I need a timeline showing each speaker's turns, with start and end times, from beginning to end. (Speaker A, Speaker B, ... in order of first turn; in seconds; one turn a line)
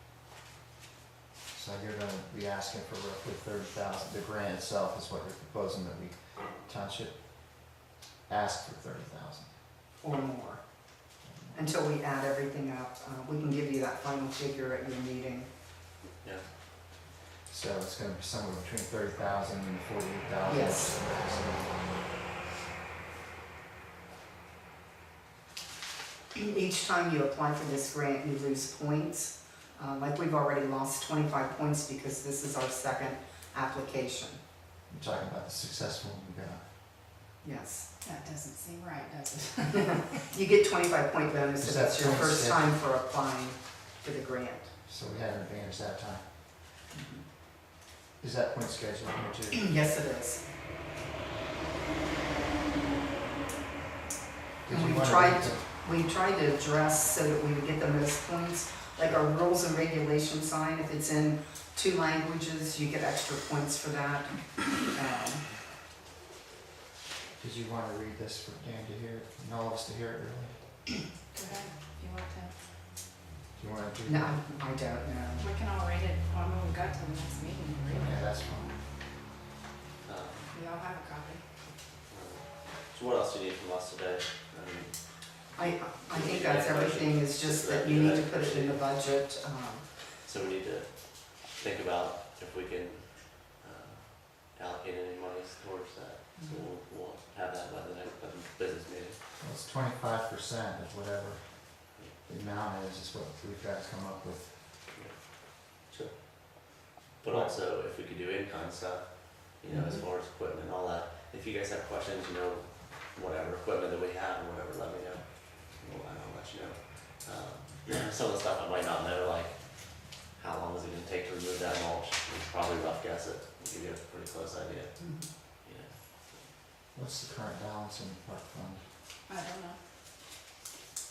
Speaker A: 1.5-7.2
Speaker A: 8.3-9.5
Speaker B: 10.0-10.6
Speaker A: 11.2-11.7
Speaker B: 11.5-15.5
Speaker A: 17.5-21.8
Speaker B: 20.4-21.0
Speaker B: 26.3-34.4
Speaker A: 34.9-36.6
Speaker B: 37.4-37.9
Speaker C: 38.0-40.2
Speaker B: 40.1-44.7
Speaker A: 41.6-42.7
Speaker A: 44.9-46.2
Speaker B: 46.9-47.2
Speaker A: 48.2-49.6
Speaker B: 49.5-50.4
Speaker A: 54.6-55.6
Speaker B: 54.7-65.4
Speaker A: 67.4-70.6
Speaker C: 71.3-72.5
Speaker A: 73.5-74.4
Speaker B: 74.1-75.5
Speaker C: 75.4-78.3
Speaker A: 77.9-78.7
Speaker D: 80.0-80.5
Speaker C: 80.5-81.4
Speaker D: 82.1-84.9
Speaker D: 85.5-88.8
Speaker B: 85.5-89.9
Speaker D: 90.2-99.2
Speaker B: 96.4-96.6
Speaker A: 99.4-104.5
Speaker D: 104.9-125.0
Speaker A: 107.3-107.5
Speaker B: 109.7-110.0
Speaker B: 125.0-125.3
Speaker D: 125.6-126.5
Speaker A: 126.9-128.8
Speaker C: 129.3-129.8